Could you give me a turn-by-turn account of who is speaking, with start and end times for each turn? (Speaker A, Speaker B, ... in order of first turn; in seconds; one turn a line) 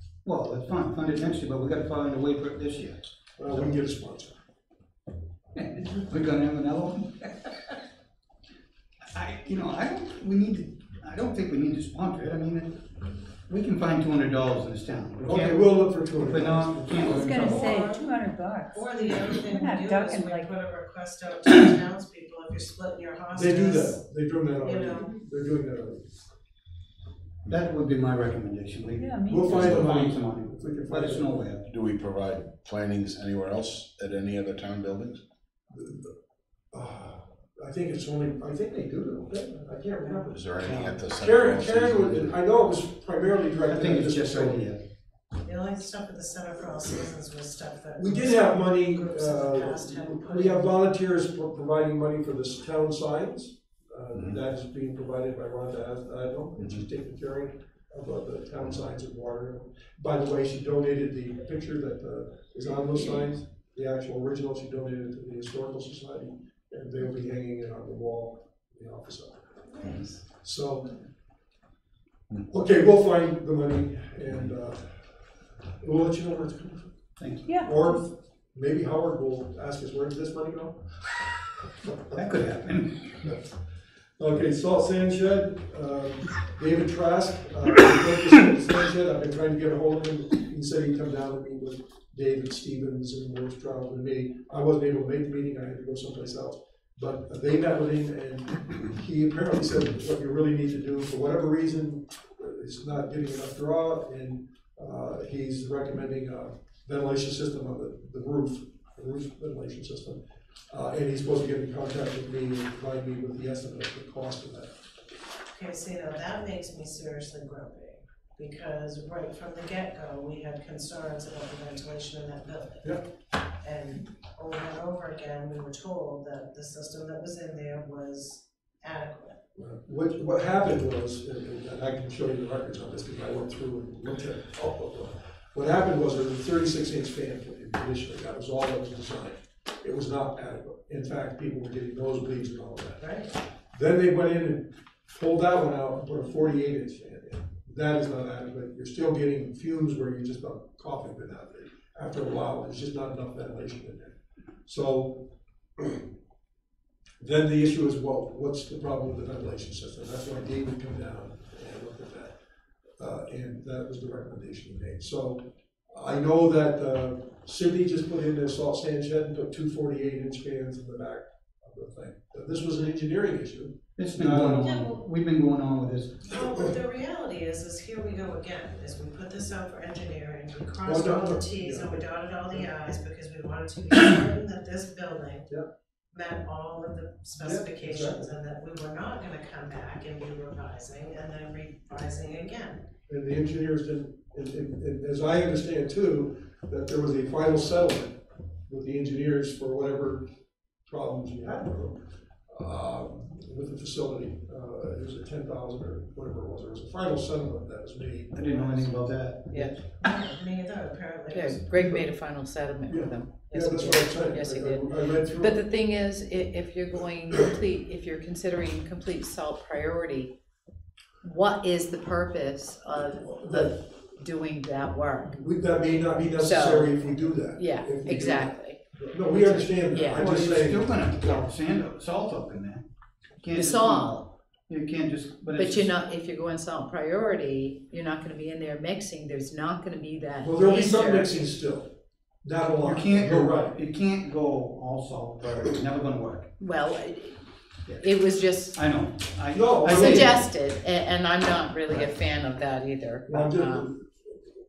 Speaker A: 0.2-3.7
Speaker B: 3.4-4.3
Speaker A: 5.5-7.8
Speaker A: 9.1-12.8
Speaker A: 13.5-17.6
Speaker B: 15.2-16.9
Speaker C: 17.0-18.1
Speaker D: 17.2-20.5
Speaker C: 18.7-24.0
Speaker B: 23.3-26.1
Speaker C: 24.6-25.1
Speaker A: 27.4-31.6
Speaker D: 29.0-29.5
Speaker B: 29.2-31.3
Speaker E: 29.5-29.9
Speaker E: 31.6-35.2
Speaker B: 35.7-36.1
Speaker B: 36.7-40.4
Speaker C: 40.0-40.3
Speaker E: 40.3-42.3
Speaker A: 40.6-41.0
Speaker B: 41.1-44.7
Speaker A: 43.6-44.8
Speaker C: 45.4-50.7
Speaker B: 48.0-70.9
Speaker B: 72.5-75.0
Speaker B: 75.8-76.9
Speaker A: 77.2-77.5
Speaker D: 77.5-78.0
Speaker B: 77.6-80.8
Speaker A: 82.1-83.2
Speaker B: 84.2-114.7
Speaker C: 115.5-123.0
Speaker C: 123.6-129.4
Speaker B: 129.6-143.0
Speaker C: 143.0-143.3
Speaker B: 143.7-156.0
Speaker B: 157.2-162.3
Speaker B: 163.0-174.8
Speaker A: 174.0-176.3
Speaker C: 174.6-174.9
Speaker C: 176.2-185.5
Speaker B: 180.8-182.7
Speaker C: 186.1-192.8
Speaker B: 187.4-188.3
Speaker B: 193.1-200.3
Speaker B: 200.8-208.9
Speaker A: 208.3-210.1
Speaker F: 209.5-209.8
Speaker C: 210.0-211.6
Speaker F: 211.3-220.3
Speaker B: 211.7-212.1
Speaker B: 212.9-215.6
Speaker F: 221.2-225.4
Speaker B: 223.2-223.8
Speaker B: 225.3-230.9
Speaker F: 226.3-230.3
Speaker A: 230.1-232.8
Speaker A: 233.4-235.9
Speaker F: 233.5-234.3
Speaker F: 235.6-241.5
Speaker B: 240.4-243.8
Speaker A: 242.8-246.5
Speaker F: 246.6-247.4
Speaker F: 248.0-248.8
Speaker A: 248.7-250.4
Speaker B: 249.5-250.4
Speaker F: 249.8-253.9
Speaker B: 253.3-254.1